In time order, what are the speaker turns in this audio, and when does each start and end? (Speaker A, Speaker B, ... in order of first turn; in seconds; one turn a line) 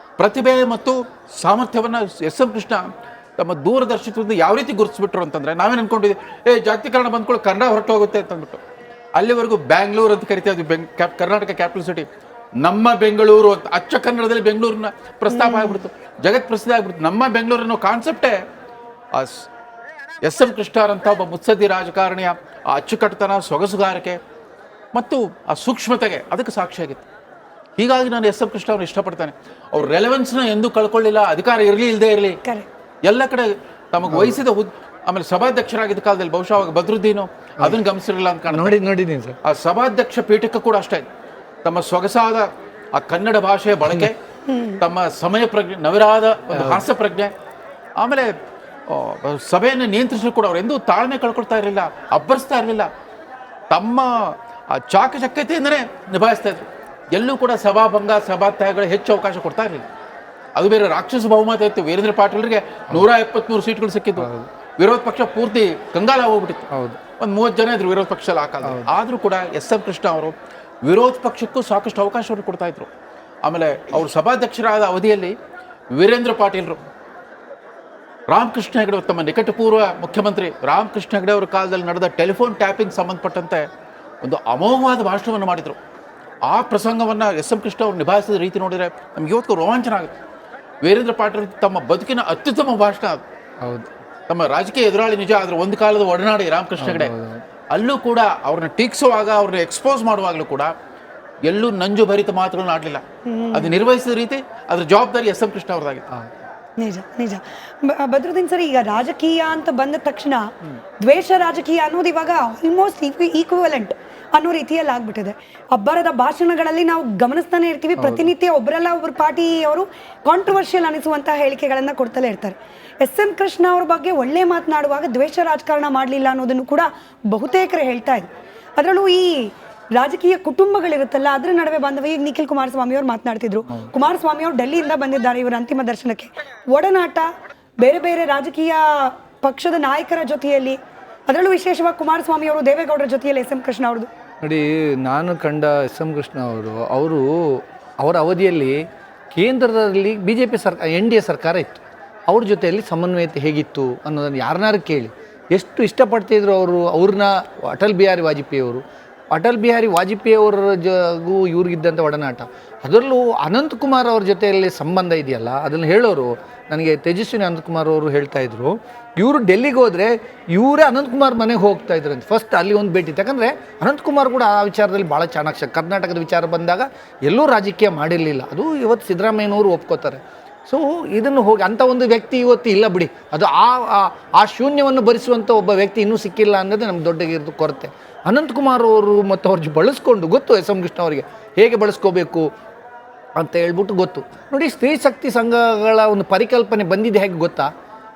Speaker A: 0.2-8.6
Speaker A: 9.2-12.1
Speaker A: 12.6-18.4
Speaker B: 15.3-15.8
Speaker A: 19.1-19.5
Speaker A: 20.2-24.2
Speaker A: 24.9-27.0
Speaker A: 27.8-32.4
Speaker A: 33.0-38.8
Speaker C: 34.1-34.4
Speaker C: 38.5-39.4
Speaker A: 39.4-41.0
Speaker A: 41.6-44.2
Speaker B: 44.5-44.8
Speaker A: 44.8-47.3
Speaker C: 46.5-46.9
Speaker A: 48.0-48.3
Speaker A: 48.9-52.9
Speaker A: 53.7-59.8
Speaker A: 60.6-66.7
Speaker C: 64.2-64.5
Speaker C: 66.7-67.0
Speaker A: 67.2-70.3
Speaker C: 68.6-68.9
Speaker A: 70.8-72.9
Speaker A: 73.5-75.3
Speaker A: 75.9-76.8
Speaker A: 78.3-83.7
Speaker A: 84.2-85.8
Speaker A: 86.5-90.1
Speaker A: 90.8-93.2
Speaker C: 93.6-93.9
Speaker A: 94.3-97.2
Speaker C: 96.8-97.4
Speaker A: 97.7-100.7
Speaker A: 101.5-106.1
Speaker B: 103.3-103.7
Speaker B: 106.8-110.5
Speaker B: 111.0-137.3
Speaker C: 118.0-118.3
Speaker B: 137.8-144.1
Speaker C: 144.4-192.5
Speaker C: 193.4-197.7